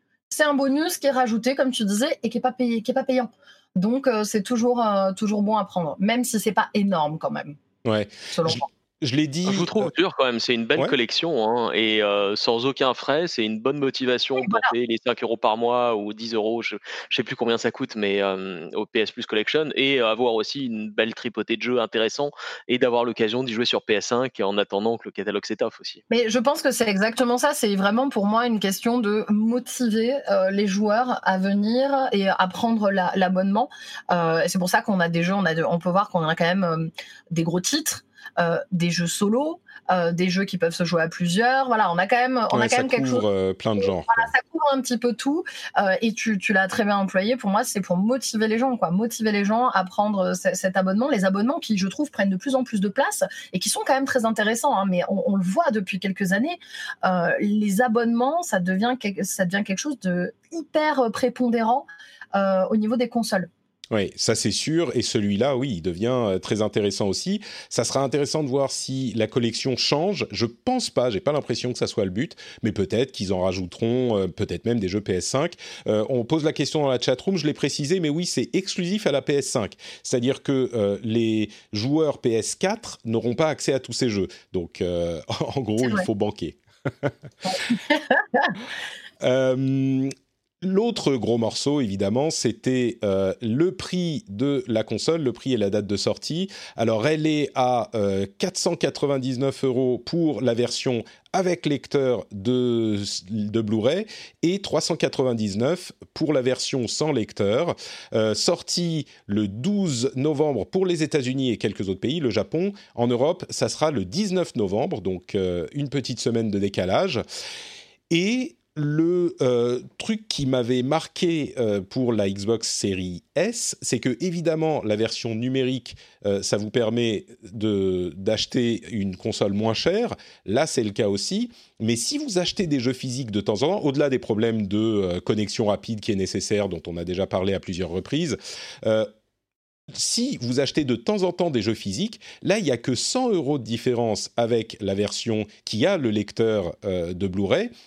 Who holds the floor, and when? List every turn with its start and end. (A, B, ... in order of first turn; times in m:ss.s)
0:00.3-0:07.6 A
0:07.8-0:09.9 B
0:08.3-0:08.7 A
0:09.4-0:26.0 C
0:14.4-0:14.7 A
0:26.1-0:43.3 A
0:42.5-0:44.3 B
0:43.8-1:03.5 A
1:03.9-1:27.1 B
1:25.8-1:26.1 A
1:27.4-1:28.5 A
1:29.2-1:57.2 B
1:58.1-2:19.1 B
2:19.9-2:27.7 B